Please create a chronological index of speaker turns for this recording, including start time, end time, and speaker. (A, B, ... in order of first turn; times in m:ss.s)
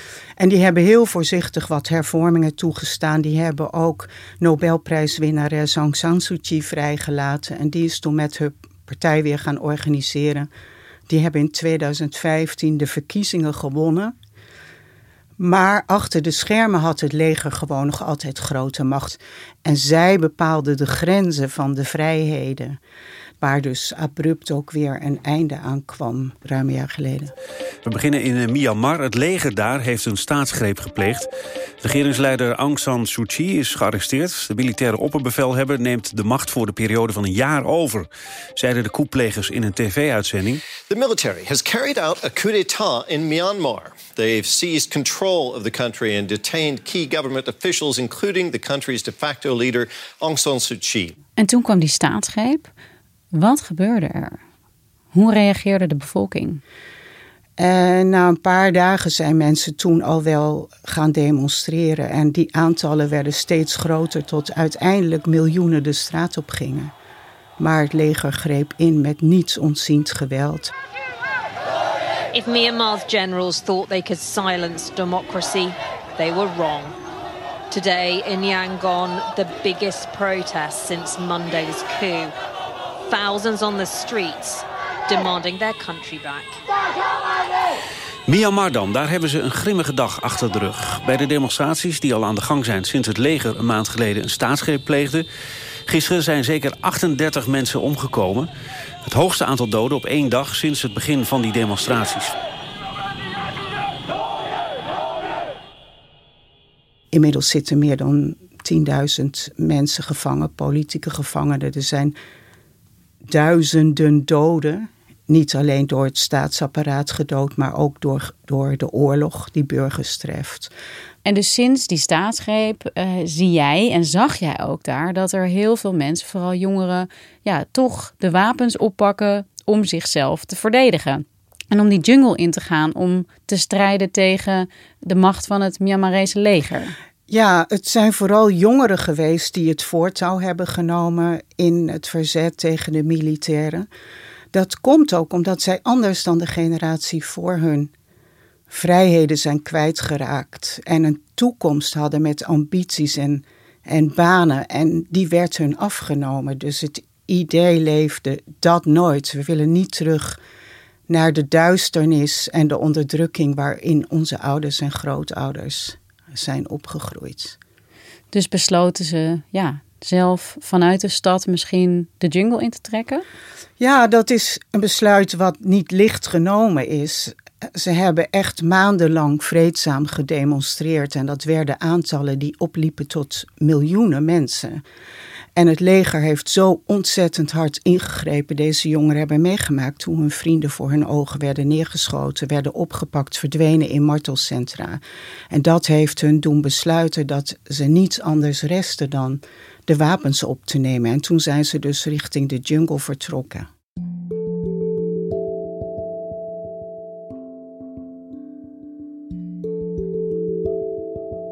0:00.4-0:10.5 A
0:11.1-0:14.1 A
0:15.4-0:22.8 A
0:23.4-0:27.3 A
0:27.8-0:31.3 B
0:31.8-0:40.6 B
0:40.9-0:51.1 C
0:51.4-0:52.7 D
0:53.3-0:54.4 D
0:55.1-0:56.6 D
0:57.6-1:06.9 A
1:07.6-1:10.7 A
1:12.3-1:17.0 E
1:17.7-1:22.3 E
1:23.1-1:26.6 E
1:28.3-1:35.2 B
1:35.9-1:38.5 B
1:39.0-1:42.3 B
1:47.1-1:52.1 A
1:53.2-2:00.7 A
2:01.2-2:16.9 D
2:17.3-2:23.9 A
2:24.5-2:27.9 A
2:28.7-2:40.4 A
2:41.1-2:47.6 A
2:48.3-2:53.2 D
2:53.8-3:04.8 A
3:05.5-3:23.7 A